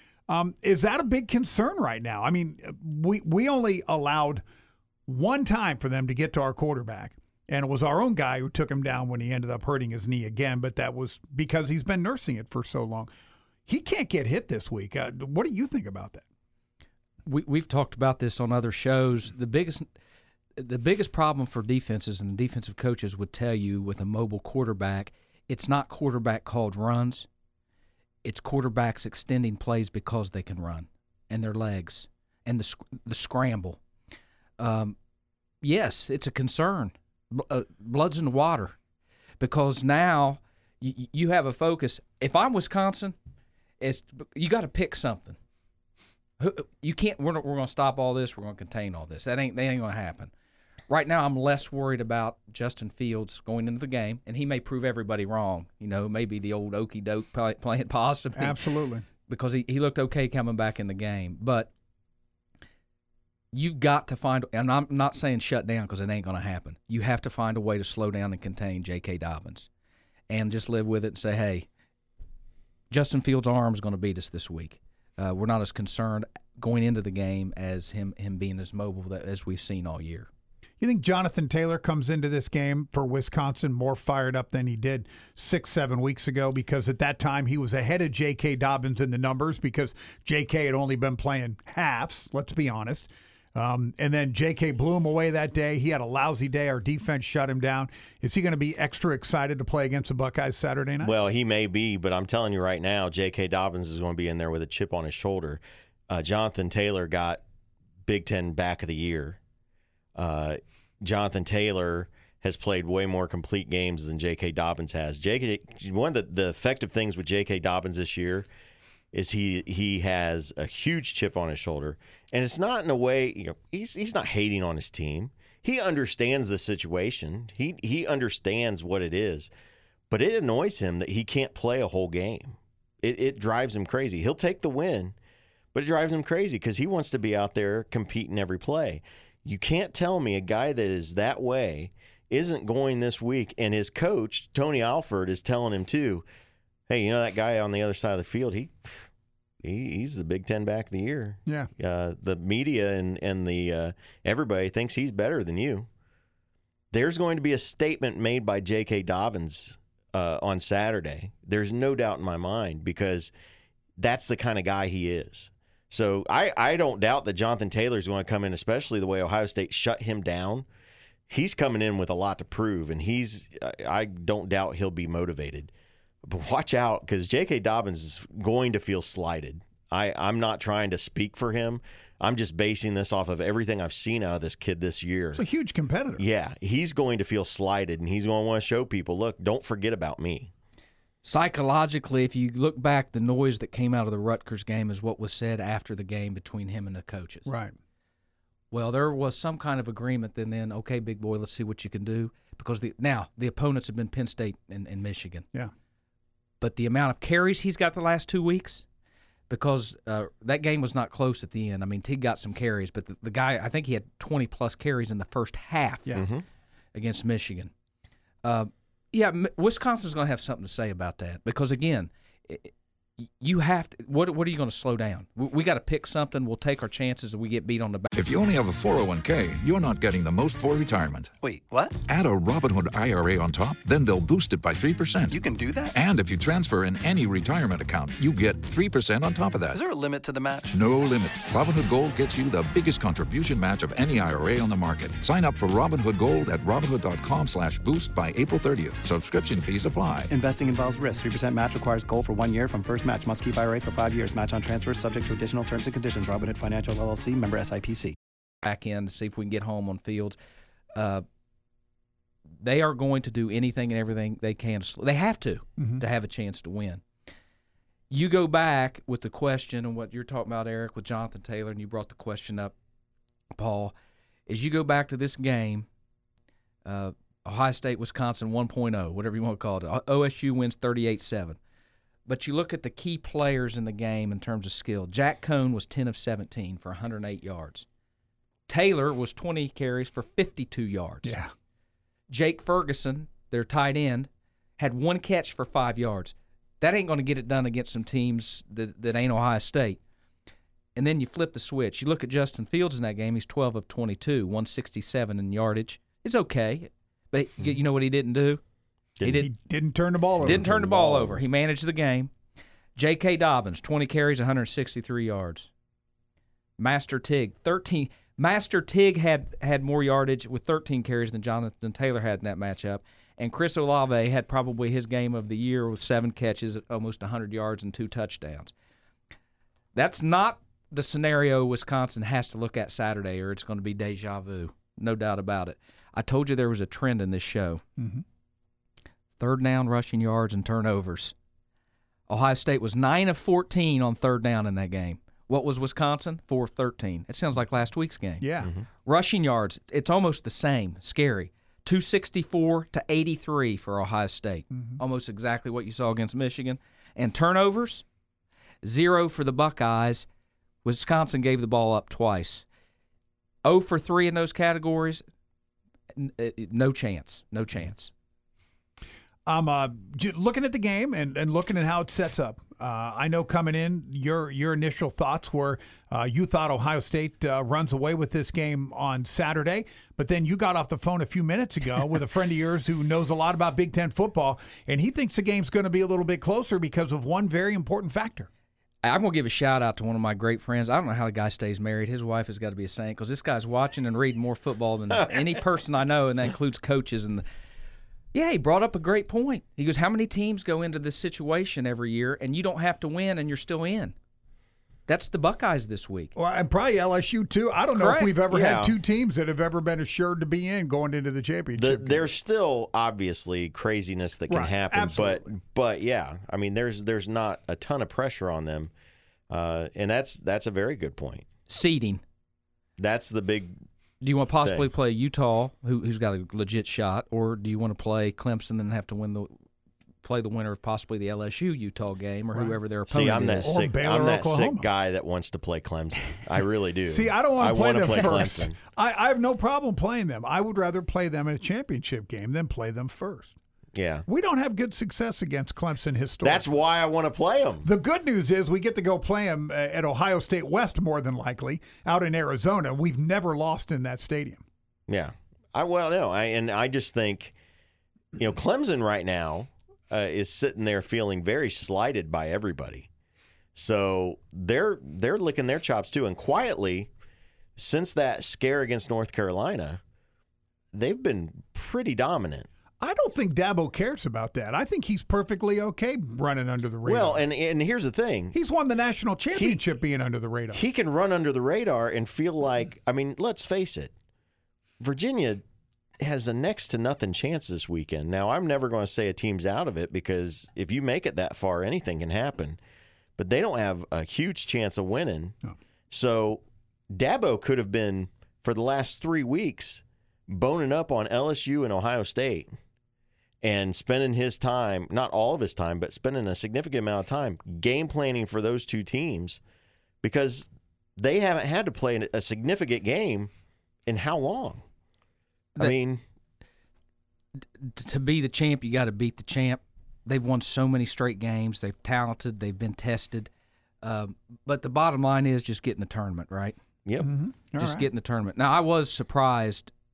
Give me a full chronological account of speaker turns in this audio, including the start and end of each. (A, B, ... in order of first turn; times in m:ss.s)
0:00.3-0:04.4 A
0:05.0-0:13.1 A
0:13.7-0:16.2 A
0:17.2-0:19.9 B
0:20.6-0:27.3 B
0:28.2-0:33.8 B
0:34.6-0:35.0 B
0:35.6-0:38.7 B
0:39.4-0:43.2 B
0:43.8-0:45.4 B
0:46.4-0:50.3 B
0:50.9-0:58.6 B
0:58.4-0:59.0 A
0:59.3-1:01.7 B
1:03.5-1:09.7 B
1:10.3-1:11.7 B
1:12.9-1:20.3 B
1:20.8-1:41.1 A
1:41.0-1:47.4 C
1:48.0-1:49.4 C
1:50.2-1:58.5 C
1:59.1-2:09.5 C
2:10.1-2:15.1 C
2:15.7-2:26.2 C
2:26.9-2:29.1 C
2:29.6-2:35.9 C
2:36.9-2:43.3 C
2:44.0-2:50.6 C
2:51.3-2:55.7 C
2:56.2-3:05.4 C
3:05.3-3:06.2 A
3:06.2-3:10.5 C
3:11.2-3:17.5 B
3:17.4-3:17.7 A
3:18.7-3:25.4 B
3:26.6-3:28.8 B
3:29.5-3:36.2 B
3:36.1-3:36.4 C
3:36.9-3:37.7 B
3:38.4-3:48.1 B
3:48.1-3:51.3 D
3:51.4-3:52.0 E
3:52.1-3:55.4 D
3:55.3-3:55.9 E
3:55.9-3:59.8 D
3:59.7-4:00.8 E
4:00.7-4:10.3 D
4:10.3-4:18.1 E
4:18.6-4:20.4 B
4:20.9-4:21.2 B
4:22.6-4:27.0 B
4:28.1-4:32.7 B
4:33.5-4:33.9 B
4:34.5-4:35.8 B
4:36.8-4:41.6 B
4:42.3-4:47.8 B
4:48.7-4:51.4 B
4:51.2-4:51.5 A
4:52.3-5:00.0 B
5:01.0-5:08.6 B
5:09.2-5:09.4 C
5:09.2-5:09.5 B
5:09.2-5:11.4 A
5:10.4-5:12.3 B
5:13.0-5:15.7 B
5:16.8-5:28.7 B
5:29.9-5:37.8 B
5:38.0-5:38.2 A
5:39.4-5:41.3 B
5:42.3-5:48.4 B
5:48.4-5:48.7 A
5:49.0-5:58.0 B
5:54.7-5:55.0 A
5:58.8-6:00.2 B
6:00.8-6:02.6 B
6:03.6-6:05.2 B
6:06.2-6:08.1 B
6:09.4-6:28.5 A
6:29.0-6:37.4 B
6:38.3-6:44.1 B
6:45.1-6:46.3 B
6:46.3-6:52.2 A
6:47.9-6:48.3 B
6:48.5-6:48.9 C
6:51.8-6:58.9 C
6:54.5-6:55.5 A
6:59.5-7:01.4 C
7:01.7-7:02.2 B
7:03.0-7:03.7 C
7:04.2-7:09.5 B
7:10.2-7:13.7 B
7:13.1-7:18.8 C
7:13.6-7:14.8 A
7:17.1-7:23.5 A
7:23.9-7:24.2 C
7:24.2-7:26.6 A
7:26.4-7:27.8 C
7:27.8-7:34.6 A
7:35.1-7:37.5 C
7:38.4-7:43.1 C
7:43.7-7:47.1 C
7:47.8-7:50.0 C
7:50.9-7:52.7 C
7:53.0-7:57.4 A
7:57.0-7:58.5 C
7:58.5-8:00.8 A
8:00.7-8:04.1 C
8:05.0-8:05.6 C
8:06.2-8:12.8 C
8:13.4-8:15.6 C
8:16.1-8:22.7 C
8:23.6-8:29.6 C
8:30.2-8:30.6 C
8:31.2-8:33.5 C
8:34.1-8:34.8 C
8:35.8-8:36.2 C
8:37.8-8:43.5 B
8:44.0-8:46.8 B
8:47.2-8:48.1 A
8:47.8-8:49.9 B